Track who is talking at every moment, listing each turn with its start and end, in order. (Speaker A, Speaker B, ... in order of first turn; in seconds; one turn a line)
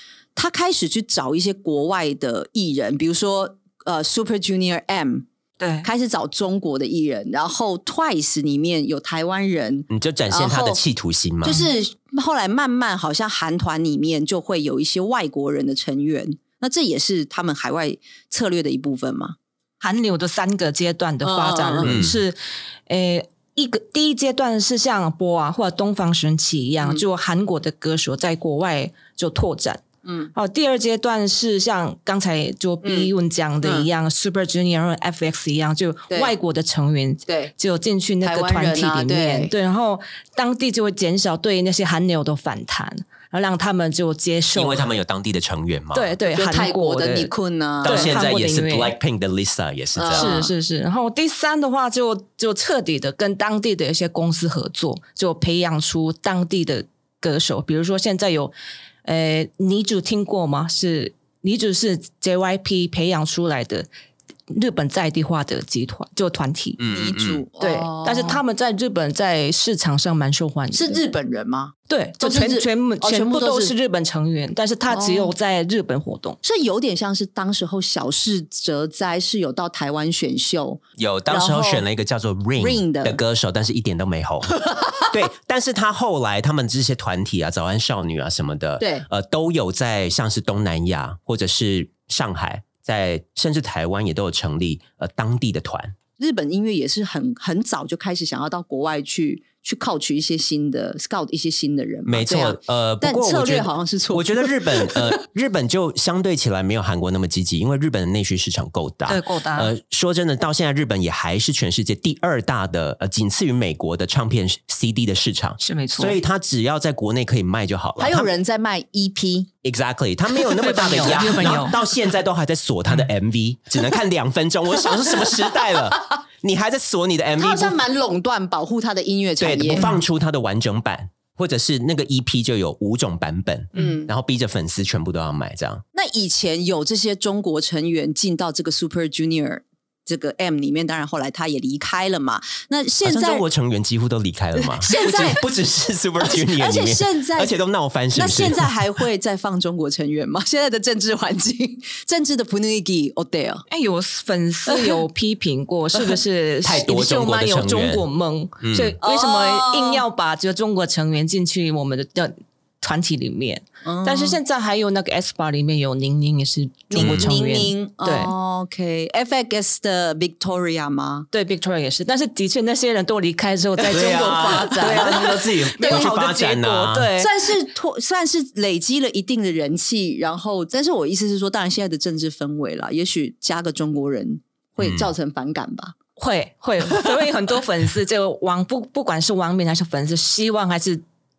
Speaker A: 0.4-5.3
Speaker B: 5.6-5.9
Speaker A: 5.8-10.8
Speaker C: 9.9-11.7
Speaker A: 11.4-19.4
Speaker B: 19.8-22.4
Speaker A: 21.2-22.0
Speaker C: 21.8-22.2
Speaker B: 22.9-44.8
Speaker A: 30.1-30.3
Speaker A: 32.8-33.1
Speaker A: 33.6-33.9
Speaker A: 37.3-37.5
Speaker A: 38.2-39.5
Speaker C: 44.5-46.2
Speaker B: 45.9-47.3
Speaker A: 46.3-48.2
Speaker C: 47.8-50.4
Speaker B: 47.8-49.0
Speaker A: 50.0-50.5
Speaker B: 50.1-58.5
Speaker B: 59.0-63.9
Speaker B: 64.5-66.8
Speaker C: 66.8-67.4
Speaker A: 66.9-68.4
Speaker B: 67.6-71.0
Speaker A: 70.7-73.7
Speaker B: 71.9-76.4
Speaker A: 74.9-75.3
Speaker A: 76.4-81.9
Speaker C: 81.0-96.0
Speaker A: 82.6-83.2
Speaker A: 88.8-89.1
Speaker A: 96.2-105.2
Speaker C: 102.1-118.3
Speaker B: 109.1-109.7
Speaker B: 115.6-116.2
Speaker A: 118.0-119.5
Speaker C: 119.6-127.8
Speaker B: 120.5-121.8
Speaker A: 121.1-121.5
Speaker A: 127.4-129.9
Speaker C: 129.4-135.8
Speaker A: 133.8-134.1
Speaker A: 135.9-143.4
Speaker C: 143.0-149.0
Speaker A: 144.8-145.5
Speaker A: 146.2-147.6
Speaker A: 148.2-153.7
Speaker B: 153.7-168.3
Speaker A: 154.7-155.0
Speaker C: 156.6-158.1
Speaker C: 158.6-159.0
Speaker A: 159.0-160.0
Speaker A: 163.8-164.4
Speaker A: 166.9-171.3
Speaker C: 167.0-167.3
Speaker B: 171.3-177.6
Speaker A: 173.8-176.2
Speaker C: 173.9-177.1
Speaker A: 177.2-185.9
Speaker C: 184.8-185.1
Speaker B: 186.2-191.0